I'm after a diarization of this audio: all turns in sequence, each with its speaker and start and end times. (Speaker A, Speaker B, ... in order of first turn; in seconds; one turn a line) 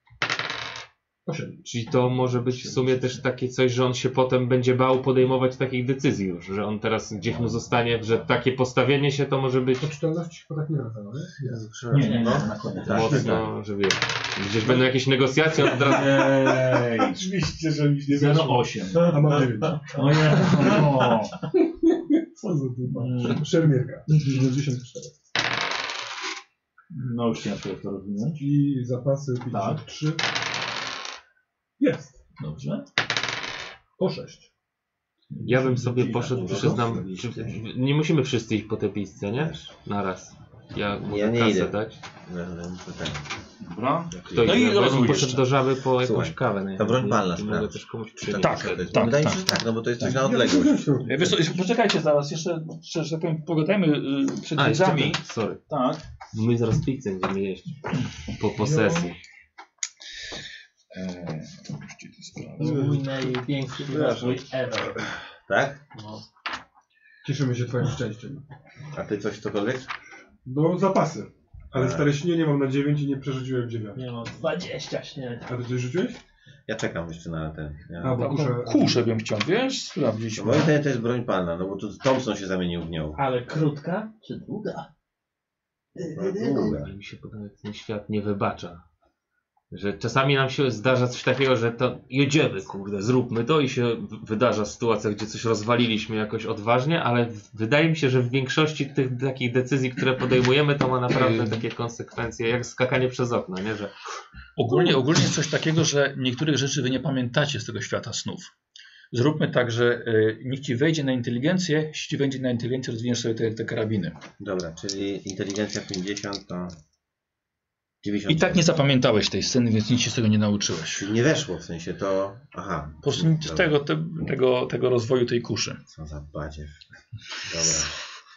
Speaker A: 1.3-1.8
Speaker B: 1.6-9.9
Speaker A: 2.6-3.1
Speaker C: 7.2-8.3
Speaker A: 9.8-11.4
Speaker D: 11.4-13.5
Speaker C: 11.5-13.5
Speaker E: 11.9-12.8
Speaker B: 12.9-16.4
Speaker A: 15.6-20.9
Speaker D: 16.4-17.1
Speaker D: 18.1-21.4
Speaker E: 19.3-21.1
Speaker A: 21.8-25.1
Speaker D: 22.9-23.5
Speaker D: 26.9-28.4
Speaker A: 28.4-30.2
Speaker D: 29.5-29.8
Speaker A: 31.8-32.1
Speaker D: 32.4-32.9
Speaker A: 34.0-34.5
Speaker D: 35.3-36.8
Speaker B: 35.4-42.0
Speaker C: 36.3-37.6
Speaker A: 36.3-36.7
Speaker C: 39.4-39.7
Speaker C: 41.0-43.2
Speaker D: 43.6-45.5
Speaker C: 44.1-44.9
Speaker B: 44.3-49.0
Speaker C: 46.0-50.9
Speaker D: 48.3-50.2
Speaker A: 50.0-51.5
Speaker D: 51.0-56.0
Speaker B: 54.6-55.6
Speaker B: 56.3-59.2
Speaker A: 58.6-59.1
Speaker D: 60.9-63.0
Speaker E: 62.6-65.1
Speaker A: 62.6-63.0
Speaker C: 63.9-64.4
Speaker C: 65.5-65.8
Speaker E: 66.0-66.2
Speaker A: 67.2-68.4
Speaker C: 68.9-69.9
Speaker A: 70.5-74.0
Speaker C: 71.7-72.1
Speaker E: 74.0-75.5
Speaker A: 75.5-76.2
Speaker C: 76.7-78.2
Speaker A: 78.0-79.0
Speaker E: 78.1-78.5
Speaker D: 78.2-80.7
Speaker C: 80.4-83.2
Speaker E: 83.2-84.9
Speaker E: 86.0-86.8
Speaker C: 86.0-86.9
Speaker B: 86.8-88.8
Speaker B: 89.7-103.9
Speaker D: 101.2-101.6
Speaker D: 104.6-108.5
Speaker D: 109.1-114.2
Speaker C: 114.4-116.7
Speaker C: 118.0-118.7
Speaker D: 118.3-121.1
Speaker C: 120.9-123.7
Speaker D: 123.0-125.8
Speaker C: 125.9-126.8
Speaker C: 127.5-128.0